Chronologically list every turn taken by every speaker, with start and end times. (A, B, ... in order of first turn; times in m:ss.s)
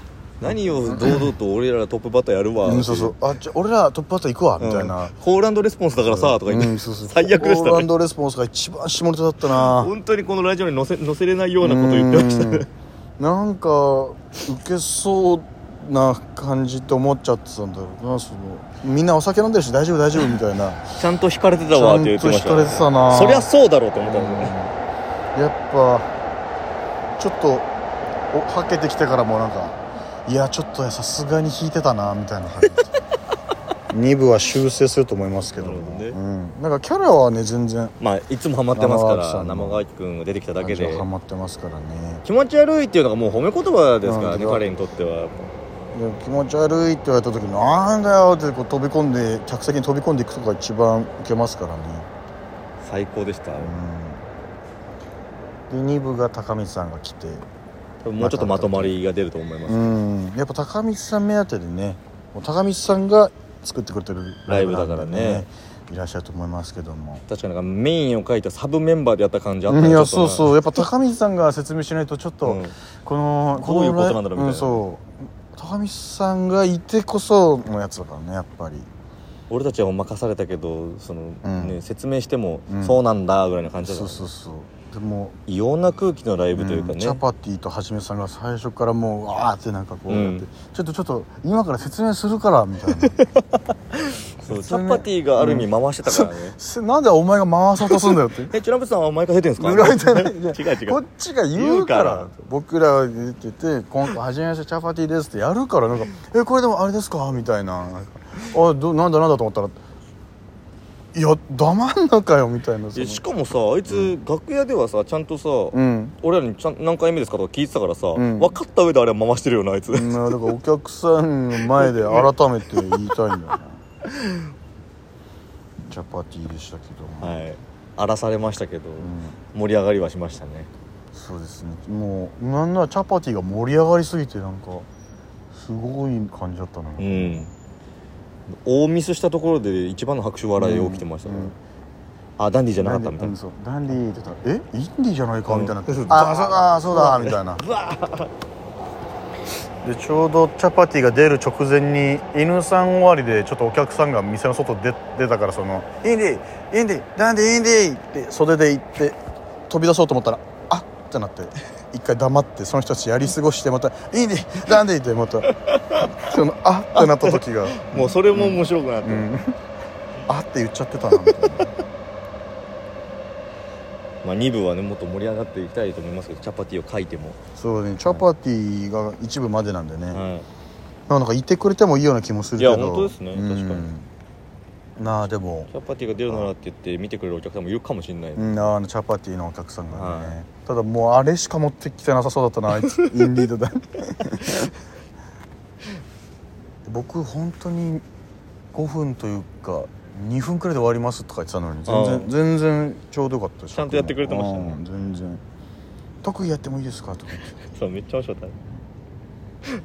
0:00.4-0:03.2 A
0:00.5-0:01.3 B
0:02.6-0:05.1 B
0:04.6-0:07.9 A
0:06.0-0:09.9 B
0:09.4-0:12.7 A
0:11.6-0:12.7 B
0:13.2-0:20.9 B
0:21.0-0:24.6 A
0:21.7-0:23.5 B
0:24.0-0:24.7 B
0:25.4-0:26.1 B
0:27.2-0:27.7 B
0:28.3-0:33.0 B
0:33.9-0:38.0 B
0:35.6-0:36.2 A
0:38.0-0:41.1 A
0:38.7-0:39.9 B
0:40.6-0:42.2 B
0:42.2-0:45.5 A
0:44.0-0:44.7 B
0:45.9-0:52.1 B
0:52.8-0:53.8 A
0:53.6-0:54.2 B
0:55.7-0:57.5 B
0:58.0-0:59.9 A
0:58.2-0:59.0 B
0:59.7-1:07.2 B
1:04.5-1:05.5 A
1:07.3-1:10.5 A
1:09.7-1:18.9 B
1:12.4-1:12.8 A
1:13.6-1:14.8 A
1:19.5-1:24.3 A
1:21.4-1:21.8 B
1:22.7-1:23.0 B
1:23.8-1:25.4 B
1:25.5-1:27.2 A
1:26.6-1:33.2 B
1:30.1-1:30.5 A
1:34.0-1:36.6 A
1:34.4-1:38.5 B
1:37.8-1:41.0 A
1:39.6-1:49.8 B
1:41.5-1:42.3 A
1:51.1-1:53.2 B
1:52.9-2:00.4 A
1:53.9-1:54.2 B
1:55.7-1:56.2 B
1:58.1-1:58.6 B
1:59.9-2:03.8 B
2:01.7-2:02.3 A
2:04.1-2:04.4 A
2:05.8-2:07.4 B
2:07.2-2:10.7 A
2:09.0-2:09.4 B
2:11.1-2:14.9 B
2:15.5-2:17.5 B
2:17.0-2:17.5 A
2:18.5-2:21.6 A
2:20.6-2:21.6 B
2:22.4-2:23.3 A
2:22.8-2:27.6 B
2:25.5-2:28.3 A
2:29.8-2:39.2 B
2:39.7-2:49.6 B
2:45.6-2:46.1 A
2:47.0-2:49.3 A
2:50.3-2:51.7 B
2:54.2-2:57.4 A
2:57.6-3:00.2 B
3:00.1-3:00.5 A
3:01.1-3:04.1 B
3:02.6-3:03.9 A
3:05.0-3:05.7 B
3:05.7-3:08.7 A
3:08.4-3:14.7 B
3:09.9-3:10.4 A
3:16.9-3:18.0 B
3:18.7-3:25.4 B
3:21.9-3:22.3 A
3:23.7-3:24.8 A
3:26.2-3:27.5 B
3:27.6-3:28.6 A